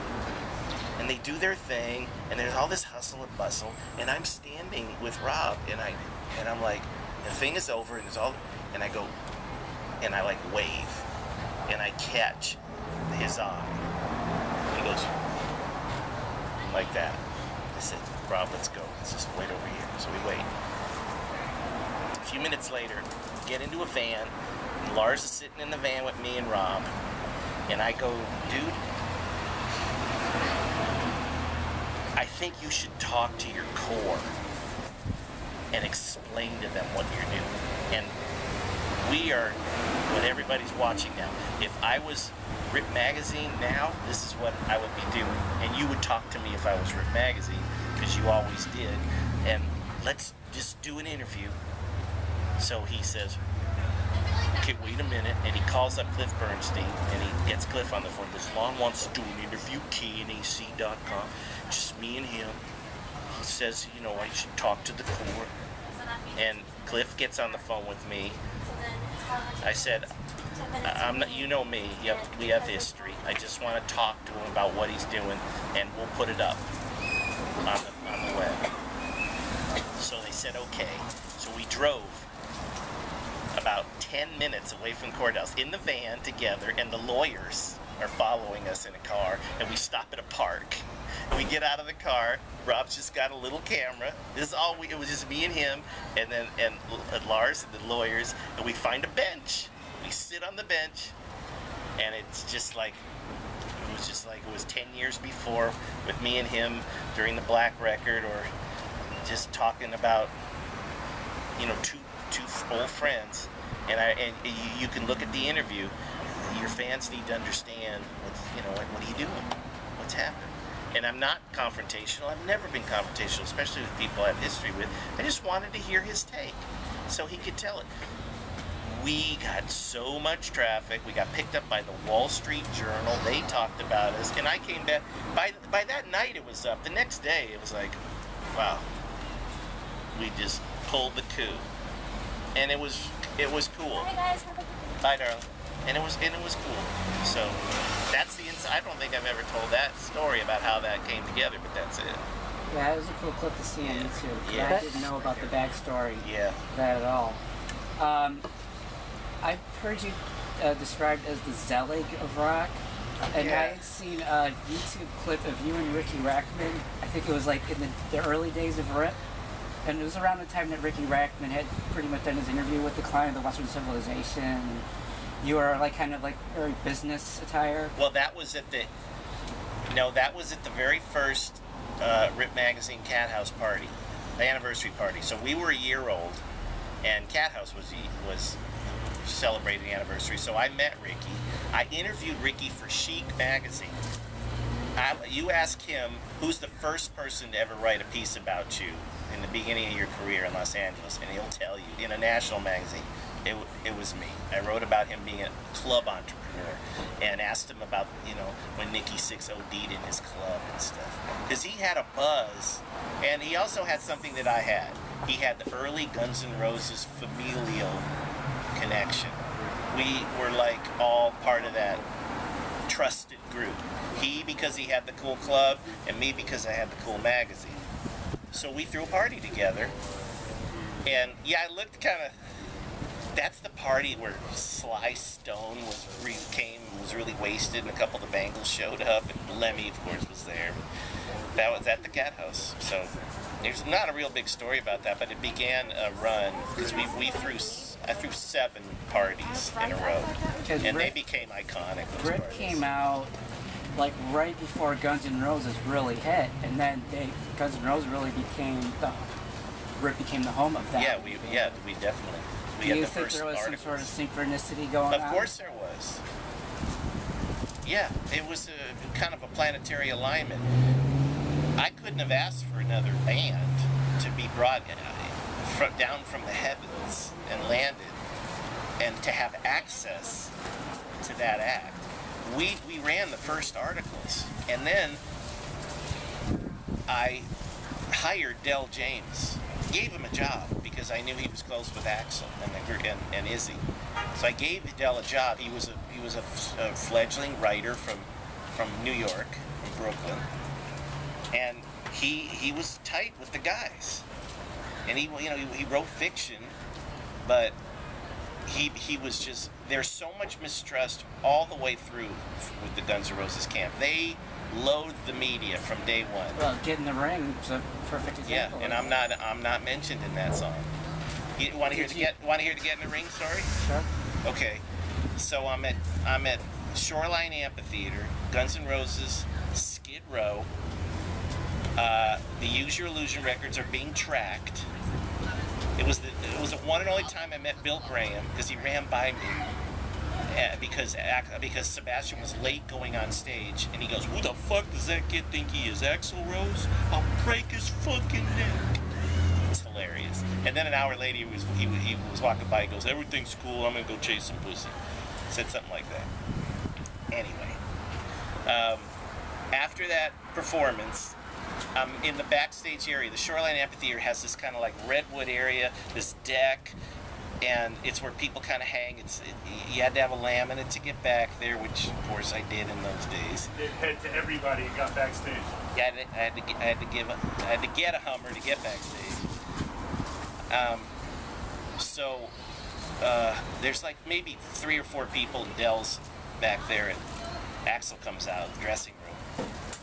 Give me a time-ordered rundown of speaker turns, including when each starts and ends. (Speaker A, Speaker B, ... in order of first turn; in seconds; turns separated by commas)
Speaker A: 1.0-9.1, Speaker A: 10.0-11.1, Speaker A: 11.7-13.8, Speaker A: 14.7-15.1, Speaker A: 16.6-17.2, Speaker A: 17.7-20.5, Speaker A: 22.2-26.9, Speaker A: 27.7-28.8, Speaker A: 32.1-34.3, Speaker A: 35.7-38.1, Speaker A: 39.0-51.5, Speaker A: 52.6-53.4, Speaker A: 54.6-62.6, Speaker A: 63.3-65.5, Speaker A: 66.3-68.4, Speaker A: 69.6-70.1, Speaker A: 70.8-76.6, Speaker A: 77.6-78.6, Speaker A: 80.0-82.3, Speaker A: 83.5-101.1, Speaker A: 102.0-103.0, Speaker A: 103.8-108.5, Speaker A: 109.2-110.3, Speaker A: 111.6-115.9, Speaker A: 116.5-127.9, Speaker A: 128.8-138.0, Speaker A: 138.5-138.8, Speaker A: 140.1-141.7, Speaker A: 142.5-144.2, Speaker A: 145.0-152.2, Speaker B: 152.7-157.4, Speaker A: 153.8-155.5, Speaker A: 156.2-156.6, Speaker B: 158.0-158.4, Speaker B: 159.4-162.8, Speaker A: 163.2-163.8, Speaker B: 163.3-169.2, Speaker B: 169.8-174.8, Speaker B: 175.4-177.9, Speaker A: 177.9-178.9, Speaker A: 179.9-186.4, Speaker A: 187.0-188.6, Speaker A: 189.2-194.0, Speaker A: 195.0-218.1, Speaker A: 218.7-222.1, Speaker A: 222.9-227.8, Speaker A: 228.5-229.9, Speaker A: 231.0-232.3, Speaker A: 233.3-240.8, Speaker A: 241.5-252.8, Speaker B: 250.6-251.2, Speaker B: 252.2-253.3, Speaker B: 253.9-259.3, Speaker B: 259.9-261.8, Speaker A: 260.9-264.1, Speaker B: 262.8-265.5, Speaker A: 265.1-266.2, Speaker A: 267.8-270.7, Speaker A: 271.8-278.2, Speaker A: 279.0-280.5, Speaker A: 281.2-285.2, Speaker A: 287.1-287.5, Speaker A: 288.1-293.8, Speaker A: 294.3-300.4, Speaker A: 301.5-304.2, Speaker A: 305.1-306.8, Speaker A: 307.4-307.8, Speaker A: 308.6-316.6, Speaker B: 316.5-319.1, Speaker A: 318.4-320.9, Speaker A: 321.6-323.7, Speaker B: 321.8-322.3, Speaker B: 323.8-324.1, Speaker A: 324.4-324.8, Speaker A: 325.4-330.7, Speaker A: 332.0-334.9, Speaker A: 336.0-339.7, Speaker A: 340.5-348.9, Speaker A: 349.7-354.9, Speaker A: 355.5-356.3, Speaker A: 357.3-357.8, Speaker A: 358.6-359.1, Speaker A: 359.7-361.4, Speaker A: 361.9-366.9, Speaker A: 367.6-373.7, Speaker C: 373.8-375.8, Speaker A: 375.9-379.5, Speaker A: 380.7-381.1, Speaker A: 382.0-382.5, Speaker A: 383.2-387.2, Speaker A: 387.9-389.4